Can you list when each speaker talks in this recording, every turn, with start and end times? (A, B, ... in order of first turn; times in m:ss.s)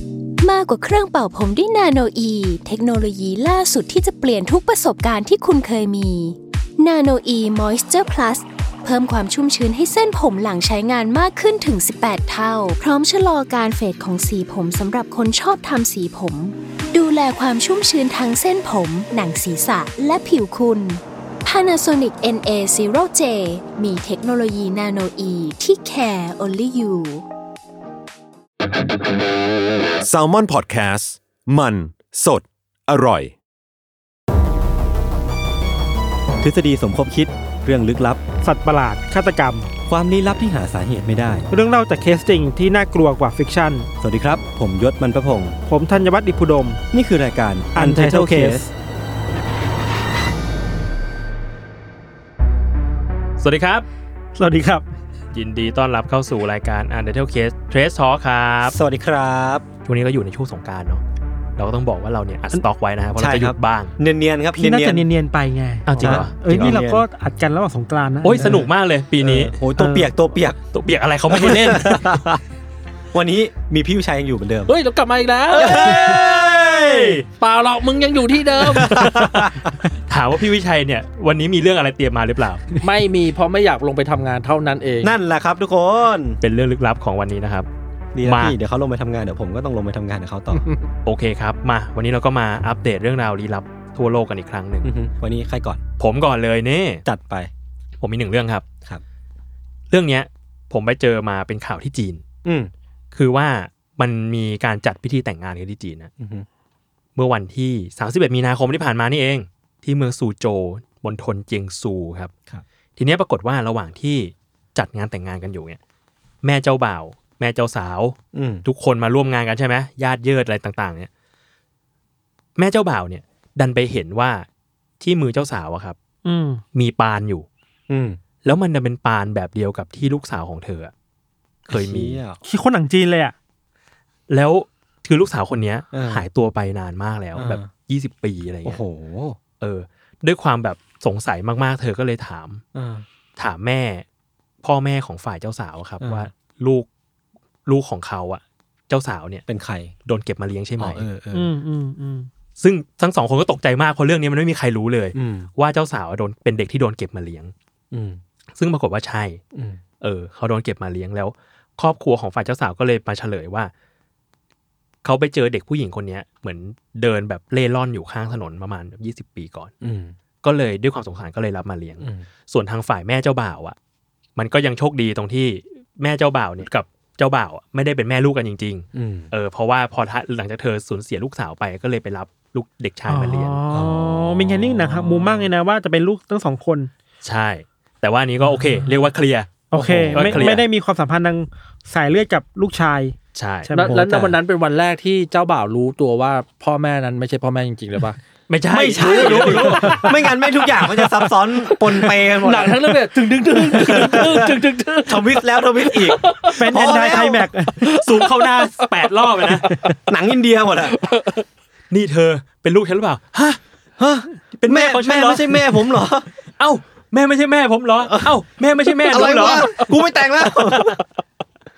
0:00.4-0:27.2 A
0:30.0-0:33.4 B
0:36.4-0:38.2 C
0:38.4-0:39.7 D
0:39.9-0:41.5 C
0:41.5-0:43.9 D
0:44.0-0:45.6 C
0:45.7-0:46.8 D
0:46.9-0:48.6 C
0:47.8-0:48.7 D
0:53.4-0:53.9 E
0:54.4-0:54.9 D
0:55.3-0:58.8 E
0:58.6-0:59.6 C
0:59.9-1:01.0 E
1:01.6-1:03.9 E
1:03.2-1:05.1 C
1:04.6-1:08.6 D
1:05.9-1:06.8 E
1:06.0-1:07.1 C
1:08.2-1:09.6 E
1:08.4-1:08.7 C
1:09.2-1:10.6 C
1:10.7-1:12.0 E
1:11.3-1:12.4 C
1:11.4-1:11.8 F
1:13.1-1:14.7 C
1:14.7-1:16.3 F
1:15.5-1:17.2 C
1:17.3-1:19.0 F
1:18.6-1:19.8 C
1:18.9-1:19.4 E
1:20.1-1:22.7 E
1:22.8-1:25.1 F
1:25.0-1:26.4 C
1:26.4-1:27.7 E
1:28.2-1:30.7 C
1:28.2-1:28.6 E
1:30.6-1:30.8 F
1:31.0-1:34.9 E
1:34.8-1:35.8 C
1:36.0-1:37.0 E
1:37.0-1:37.5 C
1:38.0-1:38.6 E
1:39.9-1:42.2 E
1:42.4-1:42.7 C
1:43.1-1:46.1 E
1:46.2-1:46.5 C
1:47.2-1:52.3 E
1:53.0-1:55.8 E
1:56.4-2:01.1 E
1:58.3-1:58.6 C
2:02.6-2:04.5 E
2:05.0-2:06.0 E
2:06.2-2:06.6 D
2:06.7-2:07.5 E
2:07.9-2:08.2 C
2:08.4-2:10.9 E
2:11.7-2:12.4 C
2:11.7-2:12.2 E
2:12.4-2:13.4 D
2:14.3-2:18.8 E
2:15.9-2:16.3 C
2:17.4-2:17.7 C
2:18.6-2:19.4 C
2:19.6-2:22.6 E
2:22.7-2:23.0 C
2:23.4-2:24.0 E
2:24.6-2:26.9 E
2:26.0-2:26.3 C
2:27.7-2:29.4 E
2:29.5-2:29.9 C
2:30.1-2:31.1 E
2:30.8-2:31.5 C
2:31.3-2:32.3 D
2:32.6-2:37.5 E
2:35.2-2:35.5 C
2:37.9-2:38.2 C
2:38.6-2:39.4 E
2:39.5-2:39.8 C
2:40.0-2:43.7 E
2:45.0-2:49.7 E
2:49.8-2:50.2 C
2:50.4-2:53.8 E
2:52.0-2:52.2 C
2:54.4-3:03.6 E
2:58.9-2:59.3 C
3:03.1-3:06.9 D
3:03.7-3:05.4 C
3:07.2-3:10.6 E
3:08.4-3:09.0 D
3:09.7-3:14.0 D
3:09.7-3:10.6 C
3:13.3-3:13.7 E
3:13.8-3:18.2 F
3:13.9-3:14.4 C
3:18.5-3:20.1 E
3:18.7-3:23.0 C
3:19.0-3:20.0 F
3:22.4-3:27.1 F
3:23.7-3:24.5 C
3:25.1-3:27.5 C
3:26.6-3:27.9 D
3:27.8-3:28.9 F
3:27.9-3:29.7 E
3:29.4-3:29.9 F
3:30.1-3:30.9 C
3:30.9-3:31.4 F
3:31.9-3:33.6 E
3:34.0-3:36.3 C
3:34.5-3:35.9 E
3:36.6-3:39.9 E
3:38.0-3:38.4 C
3:38.9-3:41.0 C
3:40.7-3:41.0 E